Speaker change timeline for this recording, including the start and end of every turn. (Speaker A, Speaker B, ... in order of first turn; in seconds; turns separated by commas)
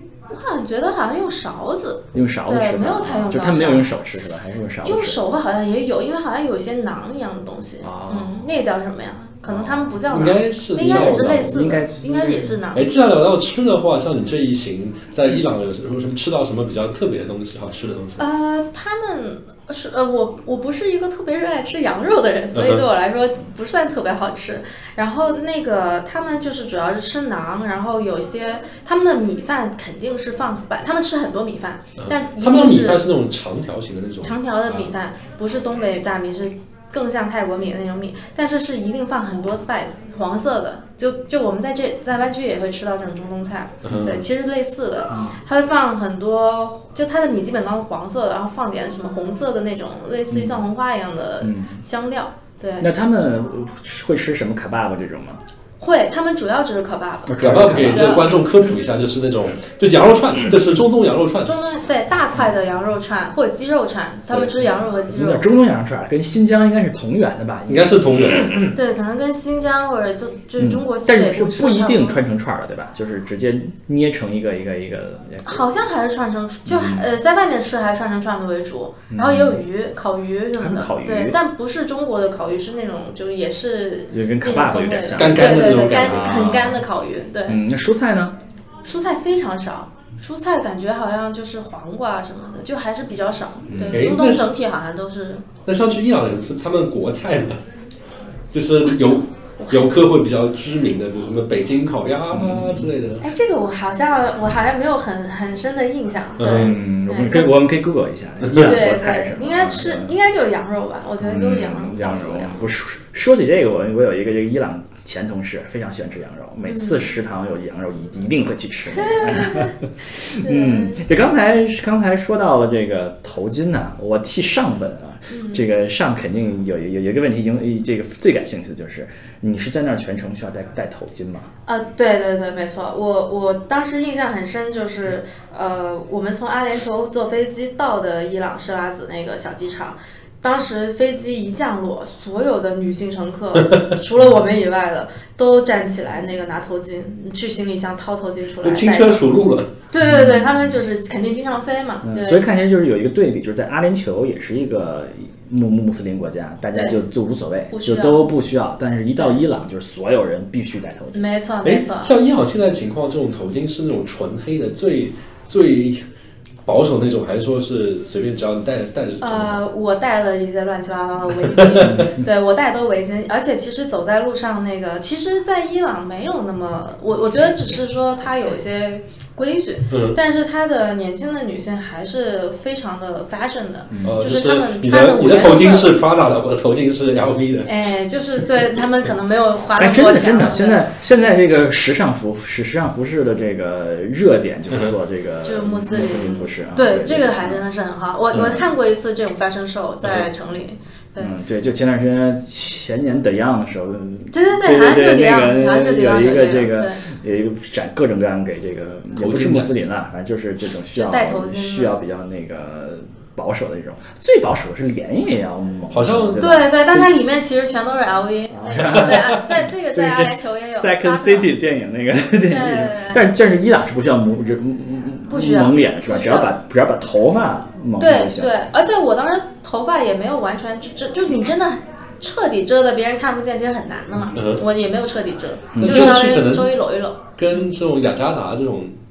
Speaker A: 0.3-3.9, Speaker B: 2.1-5.2, Speaker A: 4.8-12.8, Speaker B: 7.8-8.5, Speaker B: 9.4-10.0, Speaker C: 10.1-11.7, Speaker B: 10.8-12.6, Speaker C: 12.7-18.2, Speaker A: 18.2-33.0, Speaker C: 22.5-22.8, Speaker C: 32.0-34.9, Speaker A: 34.2-52.9, Speaker C: 43.8-44.2, Speaker B: 45.1-45.4, Speaker B: 50.3-50.6, Speaker B: 51.4-51.8, Speaker B: 52.8-55.4, Speaker A: 55.8-58.4, Speaker B: 57.2-58.2, Speaker C: 57.4-61.5, Speaker A: 61.4-65.5, Speaker B: 65.1-68.7, Speaker C: 67.7-68.6, Speaker A: 68.7-72.2, Speaker B: 70.6-75.6, Speaker A: 75.4-87.6, Speaker B: 76.7-77.0, Speaker B: 79.1-79.6, Speaker B: 80.6-81.4, Speaker B: 84.1-86.8, Speaker C: 85.2-86.5, Speaker B: 87.5-88.3, Speaker A: 88.8-95.5, Speaker B: 93.7-94.1, Speaker C: 93.9-94.5, Speaker C: 95.7-97.6, Speaker C: 98.5-103.2, Speaker A: 98.8-100.0, Speaker B: 102.3-102.9, Speaker A: 103.2-107.5, Speaker C: 106.4-106.7, Speaker B: 106.5-110.1, Speaker C: 108.4-108.8, Speaker A: 108.6-112.7, Speaker B: 111.2-131.5, Speaker A: 116.6-117.1, Speaker A: 118.9-119.7, Speaker A: 120.3-121.1, Speaker A: 125.3-125.6, Speaker A: 131.7-149.3, Speaker C: 148.6-149.7, Speaker A: 149.9-152.4, Speaker B: 150.0-150.7, Speaker B: 152.0-161.2, Speaker A: 157.7-158.3, Speaker A: 161.1-162.1, Speaker C: 161.6-166.0, Speaker C: 166.7-169.6, Speaker A: 169.2-185.9, Speaker C: 171.5-172.0, Speaker B: 171.8-172.2, Speaker C: 179.9-180.2, Speaker B: 183.9-184.2, Speaker C: 184.0-187.7, Speaker A: 187.6-190.8, Speaker B: 189.8-197.6, Speaker A: 195.4-201.3, Speaker B: 198.3-198.6, Speaker B: 201.2-217.1, Speaker A: 204.3-207.0, Speaker C: 209.2-209.7, Speaker A: 210.9-211.9, Speaker C: 215.9-216.4, Speaker A: 216.4-221.5, Speaker B: 218.5-228.5, Speaker C: 218.7-219.4, Speaker A: 222.4-223.2, Speaker A: 225.3-226.5, Speaker A: 228.0-237.2, Speaker C: 234.3-234.6, Speaker B: 235.7-236.2, Speaker C: 235.8-236.7, Speaker C: 237.4-238.9